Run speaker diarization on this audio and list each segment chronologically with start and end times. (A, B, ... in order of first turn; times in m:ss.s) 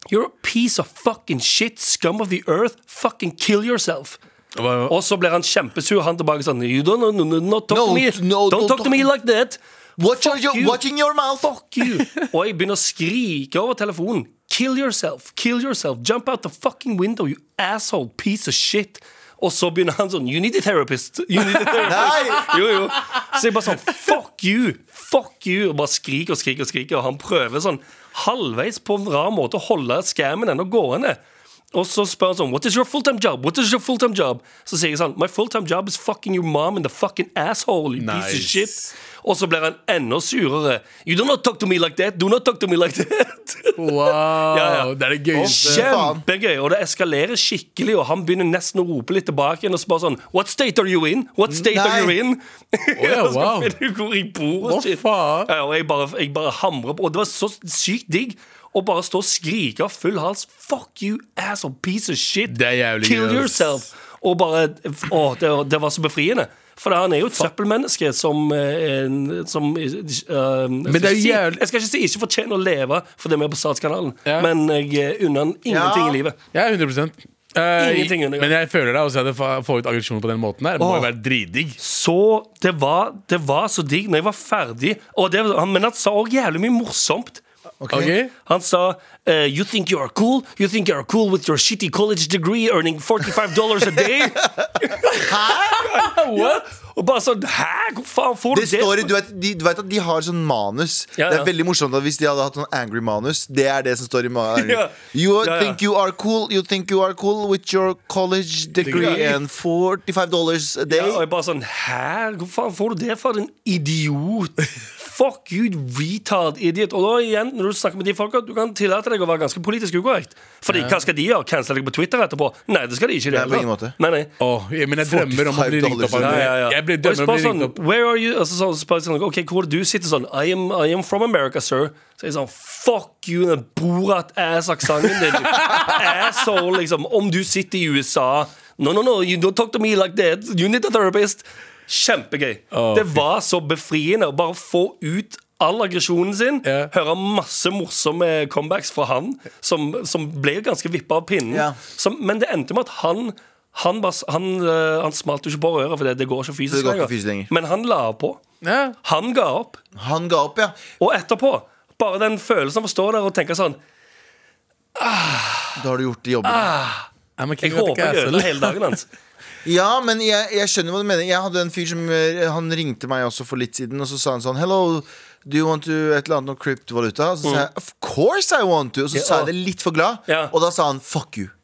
0:00.1-0:04.2 A
0:04.6-0:05.0 B
0:04.9-0:09.6 A
0:07.7-0:09.1 C
0:10.0-0:11.5 C
0:10.2-0:10.8 A
0:11.4-0:31.2 A
0:21.9-0:22.5 C
0:31.7-1:16.4 A
0:38.0-0:38.9 B
0:43.8-0:46.0 B
0:45.3-0:46.2 C
0:51.7-0:52.2 C
0:53.0-0:53.7 B
0:54.6-0:55.5 B
1:02.5-1:03.8 B
1:10.9-1:11.6 B
1:15.7-1:16.2 C
1:16.5-1:21.8 B
1:17.8-1:18.5 A
1:20.8-1:21.1 A
1:21.8-1:27.4 A
1:27.8-1:28.1 C
1:27.9-1:28.3 B
1:28.4-1:39.1 A
1:34.6-1:35.9 C
1:36.1-1:36.6 B
1:38.5-1:51.2 C
1:41.2-1:41.5 A
1:44.6-1:45.8 A
1:48.8-1:49.3 B
1:48.9-1:49.4 A
1:50.9-2:04.3 A
2:00.7-2:01.0 B
2:03.3-2:04.0 C
2:04.4-2:07.8 B
2:05.0-2:06.5 C
2:06.2-2:38.4 A
2:15.5-2:15.9 B
2:22.7-2:23.2 B
2:26.6-2:26.9 B
2:31.5-2:31.8 C
2:36.7-2:37.5 C
2:38.6-2:39.0 B
2:39.0-2:39.8 A
2:40.0-2:40.8 C
2:41.0-2:43.8 A
2:45.0-2:45.8 A
2:45.8-2:46.7 C
2:46.4-2:47.1 A
2:47.4-2:48.8 B
2:47.6-2:49.1 A
2:49.6-3:01.5 C
2:59.1-2:59.5 A
3:00.3-3:00.5 A